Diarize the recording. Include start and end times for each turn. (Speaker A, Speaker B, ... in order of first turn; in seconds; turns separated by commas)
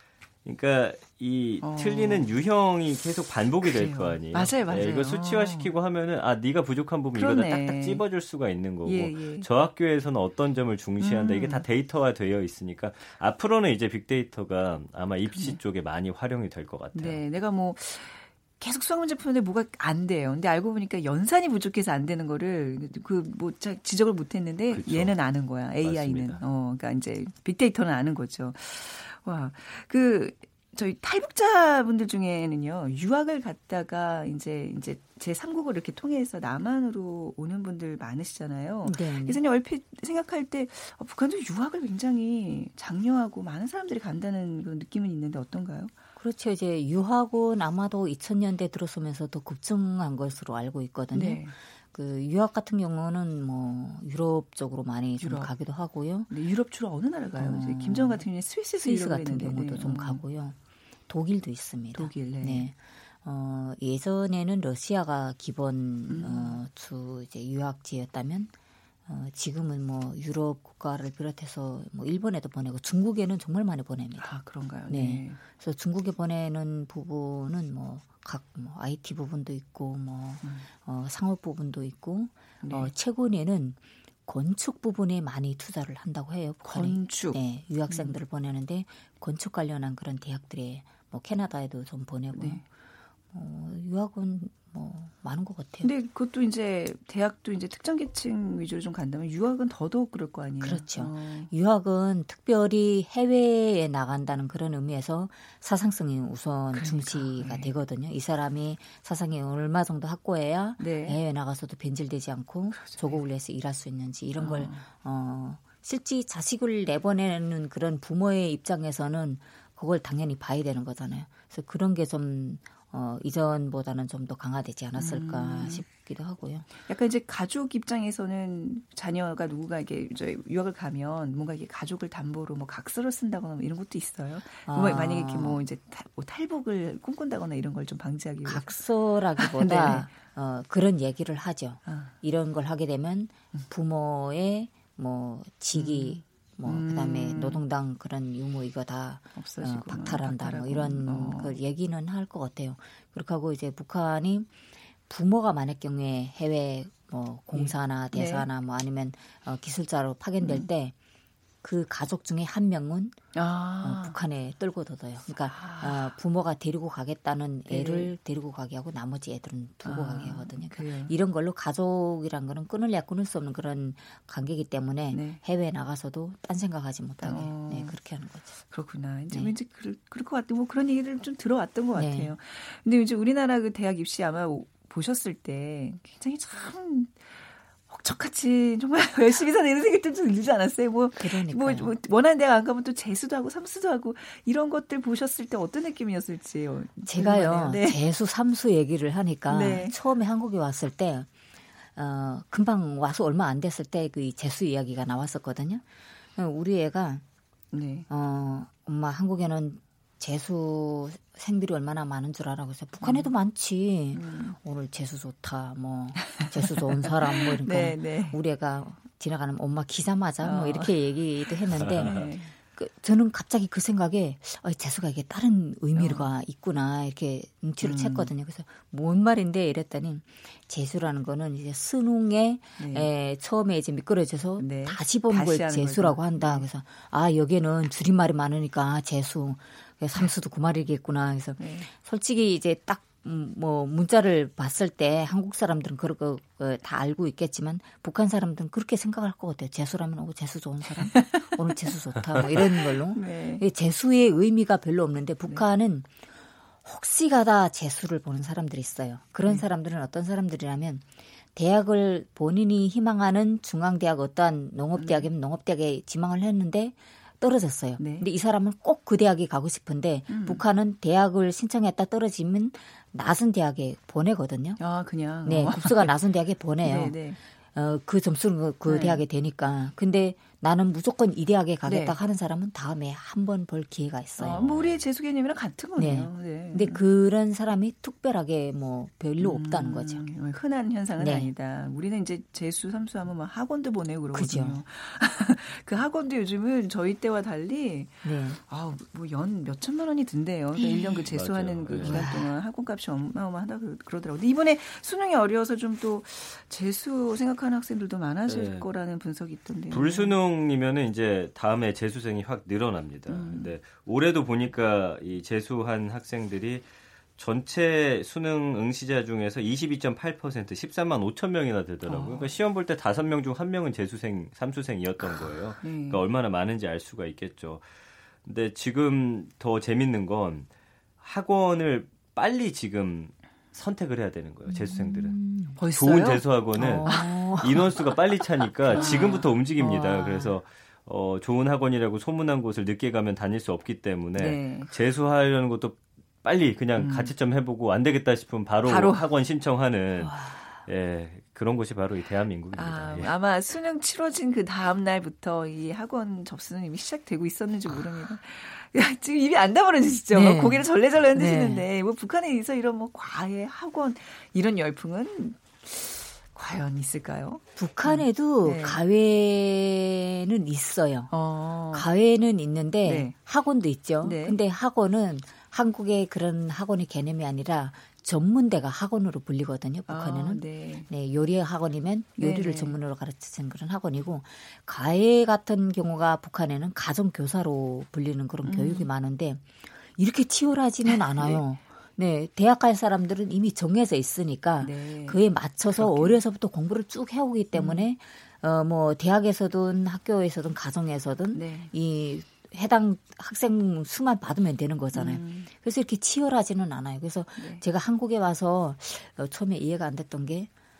Speaker A: 0.4-17.2, Speaker B: 1.6-2.3, Speaker B: 3.6-5.7, Speaker B: 7.1-8.0, Speaker B: 8.8-9.5, Speaker B: 11.0-11.6, Speaker B: 15.3-15.6, Speaker B: 16.9-45.9, Speaker A: 24.7-25.2, Speaker A: 25.8-26.4, Speaker C: 38.8-39.4, Speaker C: 46.2-56.3, Speaker B: 51.1-51.5, Speaker B: 55.2-55.5, Speaker B: 56.3-60.2, Speaker C: 57.4-58.2, Speaker C: 58.8-60.6, Speaker C: 61.1-68.5, Speaker B: 61.9-62.7, Speaker B: 66.1-66.6, Speaker C: 69.1-74.3, Speaker B: 74.2-75.4, Speaker C: 74.9-92.6, Speaker B: 82.6-82.9, Speaker B: 86.6-88.2, Speaker B: 92.3-92.6, Speaker C: 93.3-95.9, Speaker B: 95.8-101.5, Speaker C: 100.6-126.7, Speaker B: 106.7-107.7, Speaker B: 110.8-111.2, Speaker B: 112.7-113.2, Speaker B: 114.4-114.8, Speaker B: 125.0-125.8, Speaker B: 126.8-138.8, Speaker C: 134.7-135.6, Speaker C: 138.4-154.5, Speaker B: 139.4-140.1, Speaker B: 141.8-142.1, Speaker B: 145.7-147.6, Speaker B: 149.3-151.6, Speaker C: 155.1-160.9, Speaker B: 157.5-158.5, Speaker B: 160.4-160.7, Speaker C: 161.6-163.2, Speaker B: 163.3-164.2, Speaker C: 163.8-178.5, Speaker B: 165.4-166.2, Speaker B: 167.7-168.1, Speaker B: 169.8-171.1, Speaker B: 175.1-175.4, Speaker B: 177.2-177.9, Speaker B: 178.7-198.0, Speaker C: 181.9-182.3, Speaker C: 191.2-191.9, Speaker C: 197.1-201.3, Speaker B: 199.5-199.9, Speaker C: 201.9-205.8, Speaker C: 206.3-207.2, Speaker B: 207.7-208.1, Speaker C: 208.1-256.1, Speaker B: 213.0-213.3, Speaker B: 214.1-214.6, Speaker B: 216.4-218.4, Speaker B: 220.4-222.5, Speaker A: 221.8-222.1, Speaker B: 225.9-226.3, Speaker B: 227.8-228.3, Speaker B: 232.8-233.1, Speaker B: 234.6-236.6, Speaker B: 241.6-241.9, Speaker B: 251.1-251.5, Speaker B: 252.5-253.6, Speaker C: 256.8-261.0, Speaker C: 261.5-274.8, Speaker B: 265.0-265.3, Speaker B: 268.0-268.3, Speaker B: 270.3-270.6, Speaker B: 274.8-276.1, Speaker C: 275.4-277.2, Speaker B: 276.8-277.4, Speaker C: 277.7-284.6, Speaker B: 278.9-279.2, Speaker B: 281.8-282.1, Speaker B: 284.4-287.0, Speaker C: 286.0-290.2, Speaker B: 289.4-310.3, Speaker C: 291.2-291.5, Speaker C: 294.3-294.8, Speaker C: 298.2-298.6, Speaker C: 300.8-301.2, Speaker A: 301.3-302.3, Speaker C: 301.9-302.5, Speaker A: 308.5-308.9, Speaker A: 309.9-327.8, Speaker B: 313.3-313.7, Speaker B: 322.0-322.5, Speaker B: 325.3-326.2, Speaker A: 328.4-330.7, Speaker A: 331.2-335.4, Speaker C: 334.7-335.8, Speaker B: 335.8-336.5, Speaker A: 335.9-353.3, Speaker C: 336.7-338.1, Speaker B: 337.0-337.4, Speaker C: 338.9-340.6, Speaker B: 338.9-339.5, Speaker B: 344.4-344.9, Speaker B: 346.9-347.3, Speaker B: 348.8-349.2, Speaker B: 352.7-369.0, Speaker C: 360.3-361.9, Speaker C: 367.8-371.3, Speaker B: 371.3-372.1, Speaker C: 371.9-389.6, Speaker B: 373.0-373.3, Speaker B: 374.2-374.6, Speaker B: 380.1-381.1, Speaker B: 382.4-383.0, Speaker B: 388.6-389.1, Speaker C: 390.1-410.7, Speaker B: 391.1-391.6, Speaker B: 394.8-395.4, Speaker B: 395.9-396.4, Speaker B: 397.7-398.1, Speaker B: 401.5-401.9, Speaker B: 405.1-405.7, Speaker B: 407.6-407.8